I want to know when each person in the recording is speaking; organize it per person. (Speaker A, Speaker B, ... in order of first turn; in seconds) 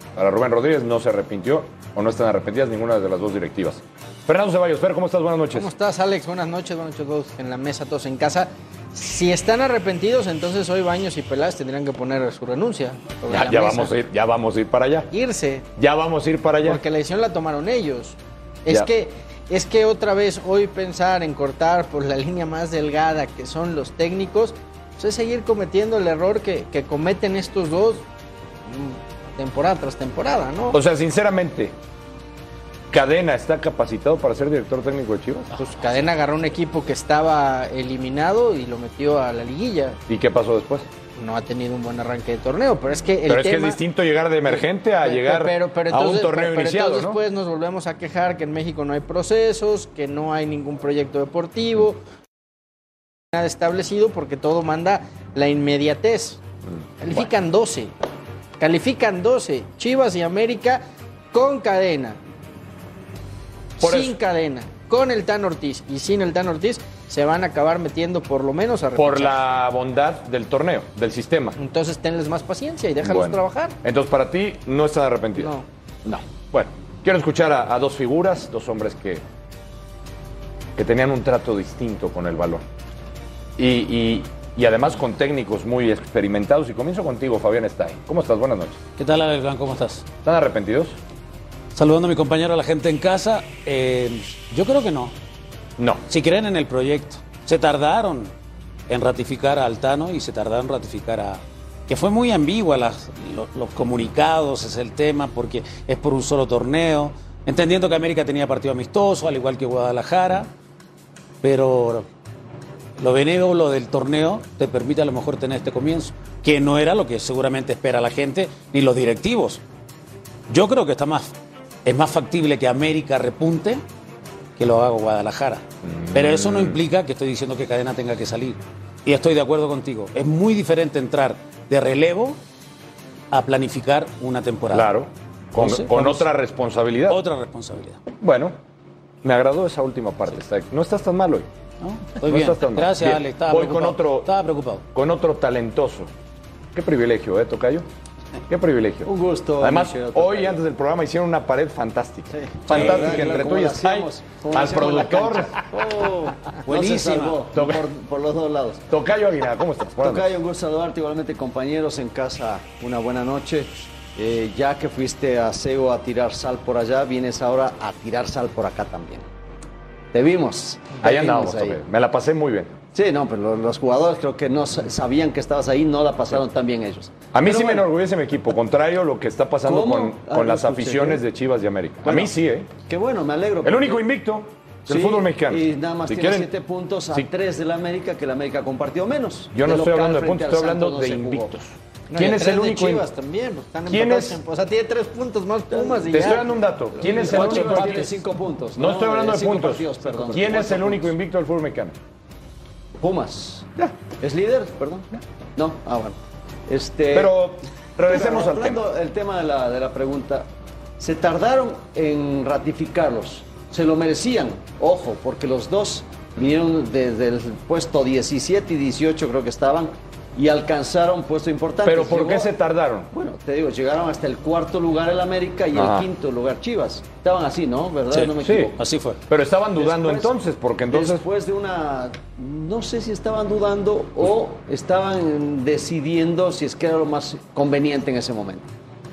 Speaker A: 0.1-5.7, 13.3-15.1, 15.8-16.8, 30.7-31.7, 32.9-35.5, 40.1-40.9, 43.3-47.2, 56.7-57.3, 63.8-64.1, 69.0-71.6, 73.0-75.5, 76.1-79.2, 80.8-82.6, 83.6-88.8, 90.2-91.0, 95.8-96.0, 125.8-126.8, 134.7-137.2, 138.2-138.6, 139.2-141.5, 142.2-144.3, 144.9-146.1, 146.7-147.9, 148.5-155.6, 157.5-157.9, 158.9-160.3, 171.0-172.8, 177.3-182.7, 183.6-186.5, 189.5-193.1, 193.9-194.4, 196.1-198.1, 198.8-201.9, 207.1-208.8, 221.8-223.1, 225.7-226.1, 228.4-228.7, 229.3-231.2
Speaker B: 5.5-13.9, 15.1-15.7, 16.6-28.0, 28.7-30.8, 35.6-40.0, 41.1-43.8, 44.5-52.0, 53.3-56.4, 57.0-57.9, 58.6-62.2, 63.8-69.3, 71.6-73.8, 75.4-75.6, 192.1-196.5
Speaker C: 89.0-90.0, 91.7-95.1, 96.1-98.3, 98.9-110.5, 111.4-112.1, 113.0-119.6, 120.5-121.3, 121.8-123.8, 124.6-132.4, 133.3-134.9, 135.5-136.3, 137.1-138.0, 141.8-144.8, 152.7-153.4, 156.7-157.4, 228.1-229.2
Speaker D: 149.1-150.6, 152.3-158.8, 160.0-169.2, 170.1-171.8, 172.9-177.9, 179.6-181.2, 182.0-182.3, 182.9-184.0, 184.9-191.5, 195.7-201.1, 203.0-206.2, 206.7-207.4, 208.1-210.5, 211.0-222.5, 223.1-228.8, 229.8-230.3, 230.9-238.7